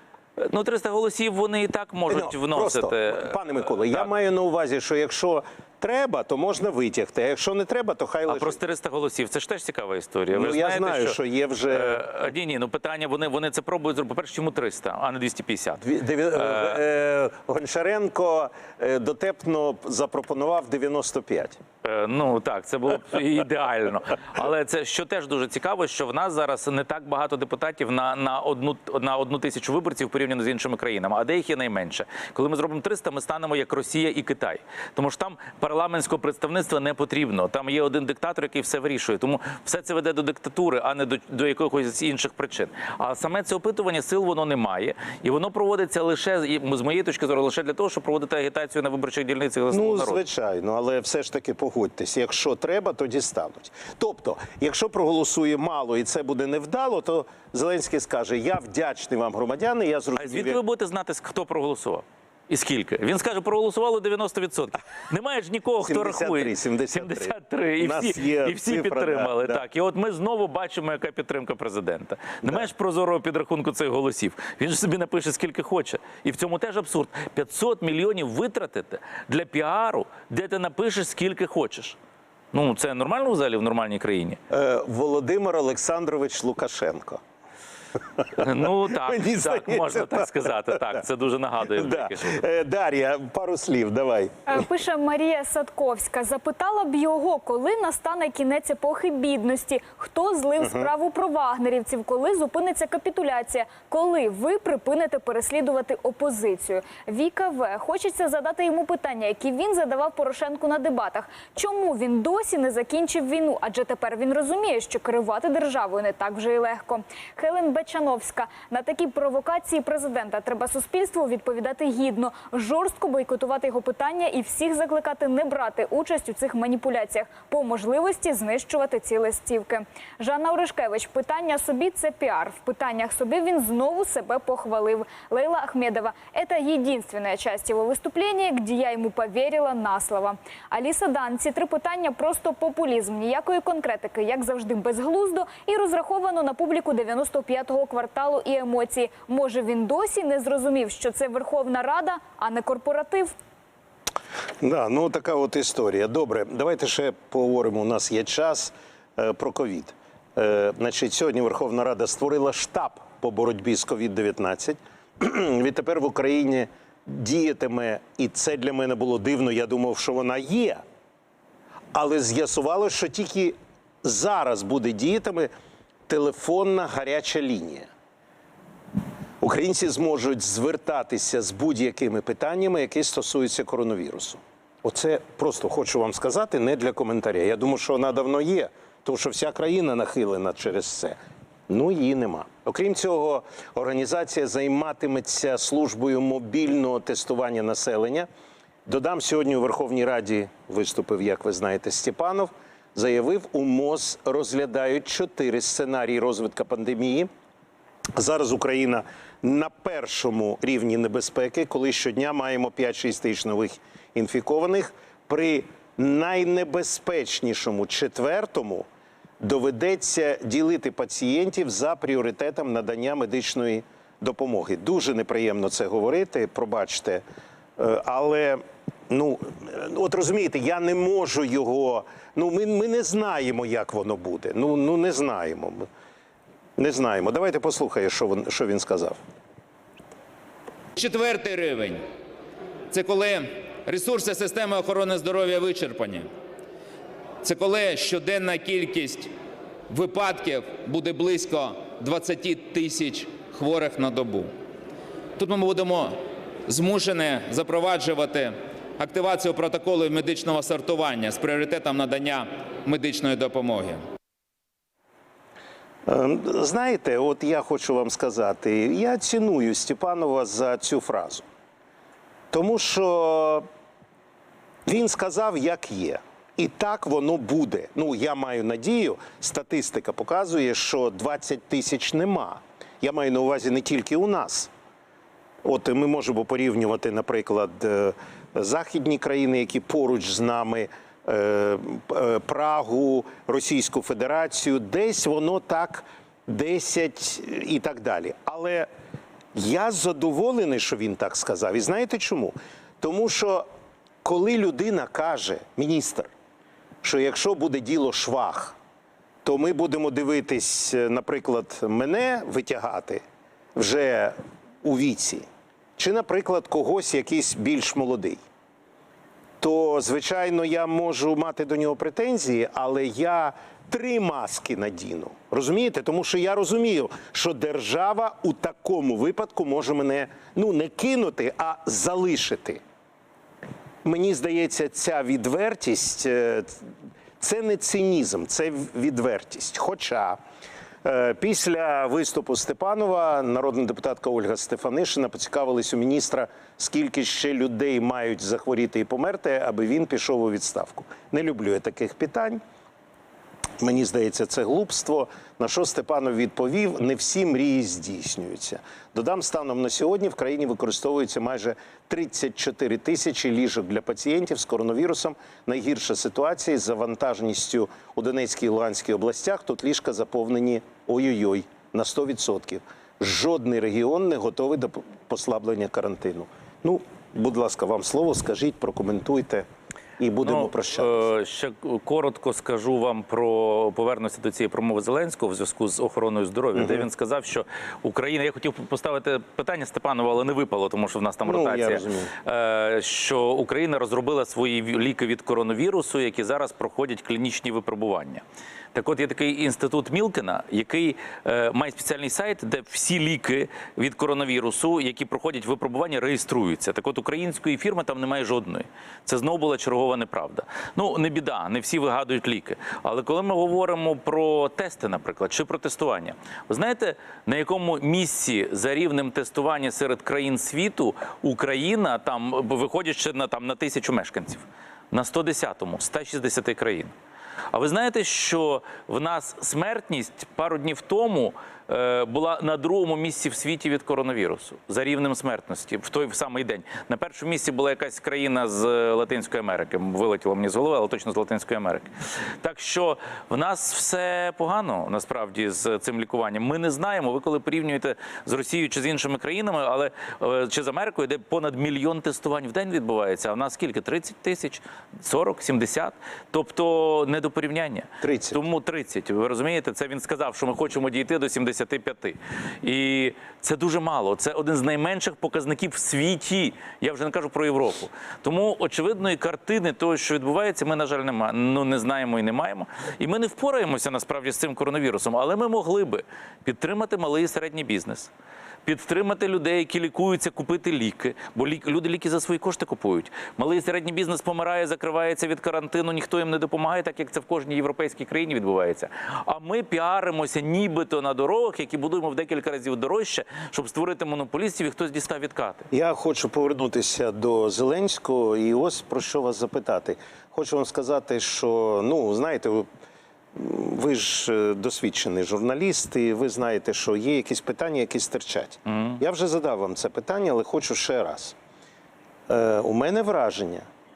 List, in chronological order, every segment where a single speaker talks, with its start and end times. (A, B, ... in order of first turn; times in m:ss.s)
0:00.4-0:03.4 A
0:02.1-0:08.6 B
0:08.3-0:11.2 A
0:10.3-0:12.0 B
0:11.7-0:15.8 A
0:15.8-0:21.6 B
0:16.4-0:16.7 A
0:21.8-0:50.2 A
0:49.7-1:00.6 B
1:00.2-1:22.0 A
1:05.8-1:09.6 B
1:22.5-1:24.4 A
1:24.5-1:27.2 B
1:28.4-1:32.4 A
1:28.4-1:30.4 B
1:31.7-1:34.5 B
1:34.5-2:33.3 C
1:40.6-1:40.9 B
2:34.6-2:50.8 B
2:51.9-2:55.5 B
2:56.1-2:57.9 B
2:59.4-3:11.2 B
3:11.7-3:18.3 B
3:18.9-3:27.3 B
3:28.2-3:38.9 B
3:39.4-3:47.2 B
3:47.8-3:55.9 B
3:56.8-3:59.2 B
4:01.0-4:02.0 D
4:02.9-4:06.3 D
4:07.4-4:09.3 D
4:09.9-4:14.5 D
4:15.4-4:24.0 D
4:26.1-4:31.4 B
4:32.5-4:33.7 B
4:34.9-4:44.7 B
4:45.6-4:58.9 B
4:59.6-5:03.7 B
5:04.2-5:06.3 B
5:07.0-5:08.8 B
5:09.4-5:13.2 B
5:13.8-5:15.5 B
5:16.0-5:18.4 B
5:19.6-5:32.8 B
5:34.0-5:36.8 B
5:37.4-5:40.4 B
5:41.0-5:52.6 B
5:53.8-6:19.7 B
6:20.2-6:21.3 B
6:20.4-6:38.4 A
6:26.8-6:27.0 B
6:31.4-6:32.3 B
6:38.9-7:07.1 A
7:07.7-7:22.1 A
7:22.6-7:58.3 A
7:38.2-7:38.6 B
7:58.8-8:15.9 A
8:15.9-8:22.9 B
8:23.6-8:31.6 B
8:32.5-8:33.9 B